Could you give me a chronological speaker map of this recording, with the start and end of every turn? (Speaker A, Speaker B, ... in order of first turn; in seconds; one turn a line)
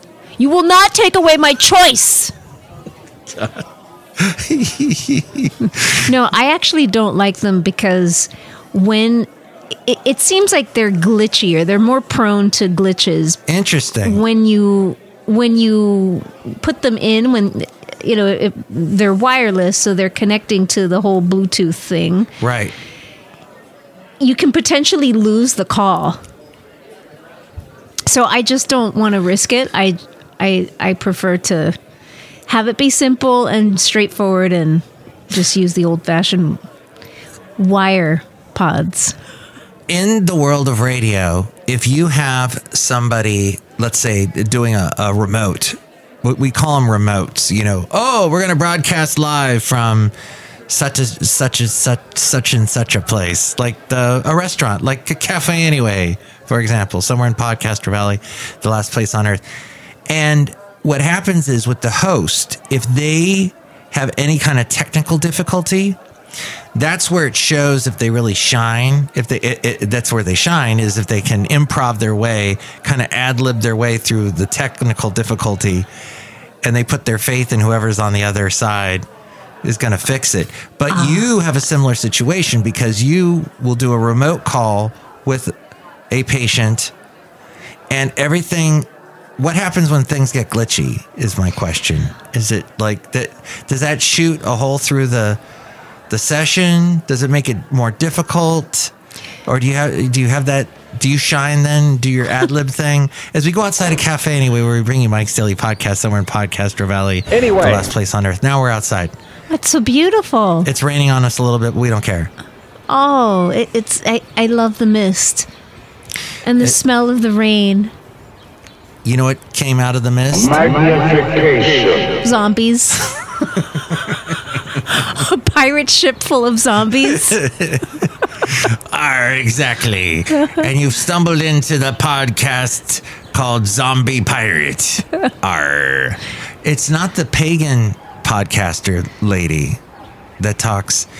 Speaker A: 0.4-2.3
Speaker B: 3.3-3.6
Speaker B: 4.2-6.0
Speaker A: 5.9-9.3
Speaker A: 9.8-13.4
Speaker B: 13.5-14.2
Speaker A: 14.0-22.3
Speaker B: 22.4-22.7
Speaker A: 24.2-26.2
Speaker A: 28.1-31.8
Speaker A: 32.5-36.6
Speaker A: 37.6-39.1
Speaker B: 39.9-50.1
Speaker B: 50.7-59.4
Speaker B: 60.1-66.0
Speaker B: 66.7-75.9
Speaker B: 76.6-79.0
Speaker B: 79.6-85.5
Speaker A: 80.9-81.2
Speaker B: 86.1-86.9
Speaker B: 87.9-95.4
Speaker B: 96.1-98.9
Speaker B: 99.5-109.1
Speaker C: 107.4-107.8
Speaker A: 109.5-110.7
Speaker B: 110.6-112.3
Speaker A: 112.9-115.5
Speaker A: 116.4-117.9
Speaker B: 119.0-120.8
Speaker C: 120.5-122.1
Speaker A: 122.2-123.2
Speaker A: 124.8-127.4
Speaker B: 127.0-139.8
Speaker B: 140.4-141.1